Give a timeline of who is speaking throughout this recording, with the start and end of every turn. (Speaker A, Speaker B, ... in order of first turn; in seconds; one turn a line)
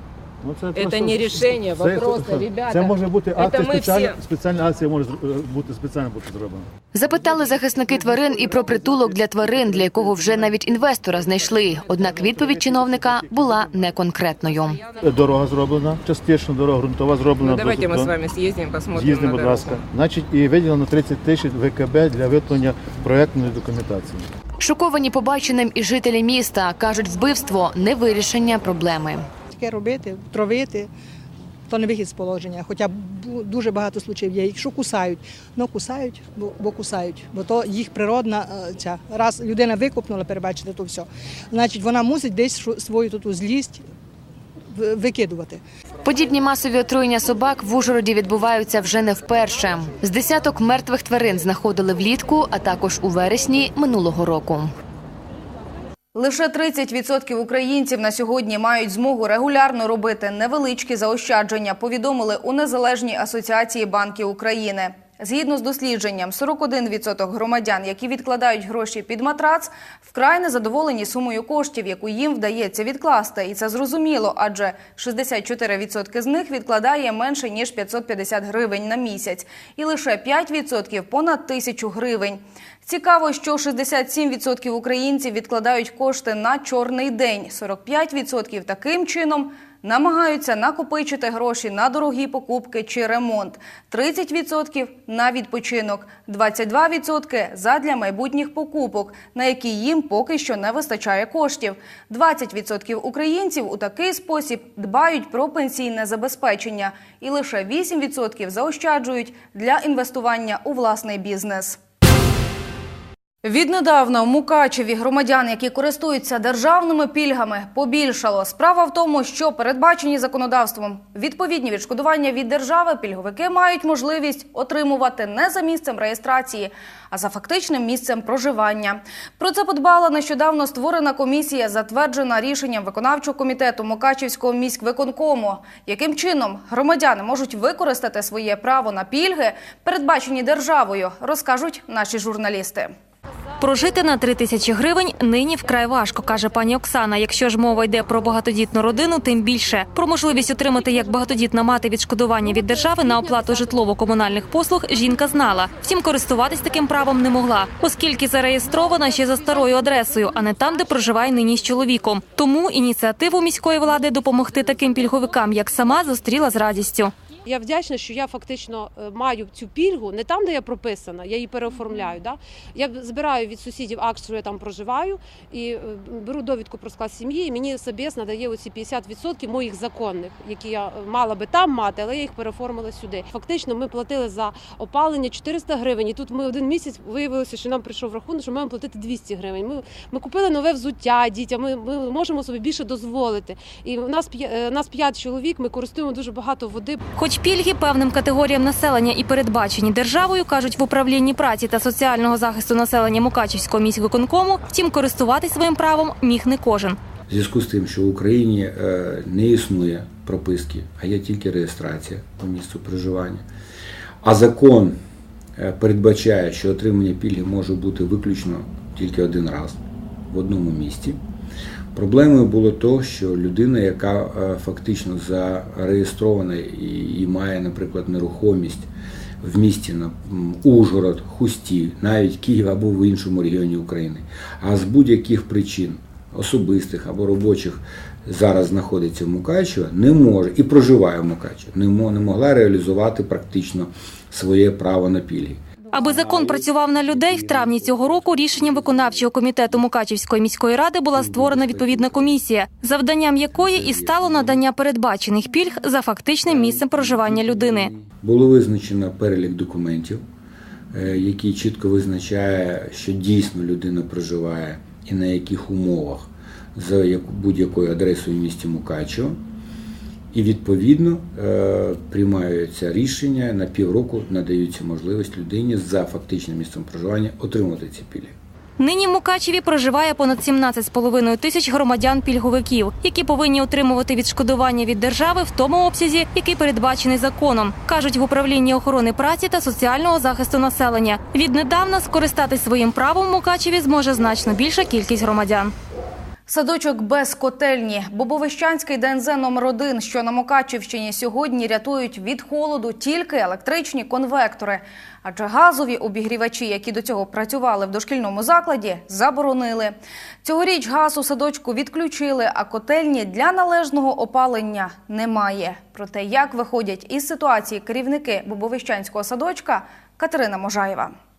Speaker A: 0.4-6.7
Speaker B: 0.7-4.2
Speaker C: 6.9-14.8
Speaker A: 8.2-8.4
Speaker A: 11.8-13.9
Speaker A: 15.0-18.1
Speaker B: 15.0-15.3
Speaker B: 17.4-19.9
Speaker A: 18.9-24.3
Speaker C: 24.6-29.3
Speaker D: 29.5-30.9
Speaker D: 31.7-43.8
Speaker D: 44.7-45.6
Speaker C: 46.1-54.7
Speaker E: 56.1-111.8
Speaker E: 113.4-142.9
Speaker F: 143.6-167.1
Speaker G: 167.5-197.0
Speaker F: 197.2-207.0
Speaker H: 207.3-213.4
Speaker H: 214.2-214.9
Speaker H: 215.6-219.8
Speaker H: 220.3-221.2
Speaker H: 221.9-228.9
Speaker H: 229.4-246.6
Speaker F: 245.9-257.9
Speaker H: 247.7-248.8
Speaker H: 251.1-252.3
Speaker H: 253.5-254.6
Speaker H: 256.5-260.2
Speaker H: 260.9-269.4
Speaker H: 270.3-278.4
Speaker F: 278.8-295.7
Speaker E: 296.5-321.1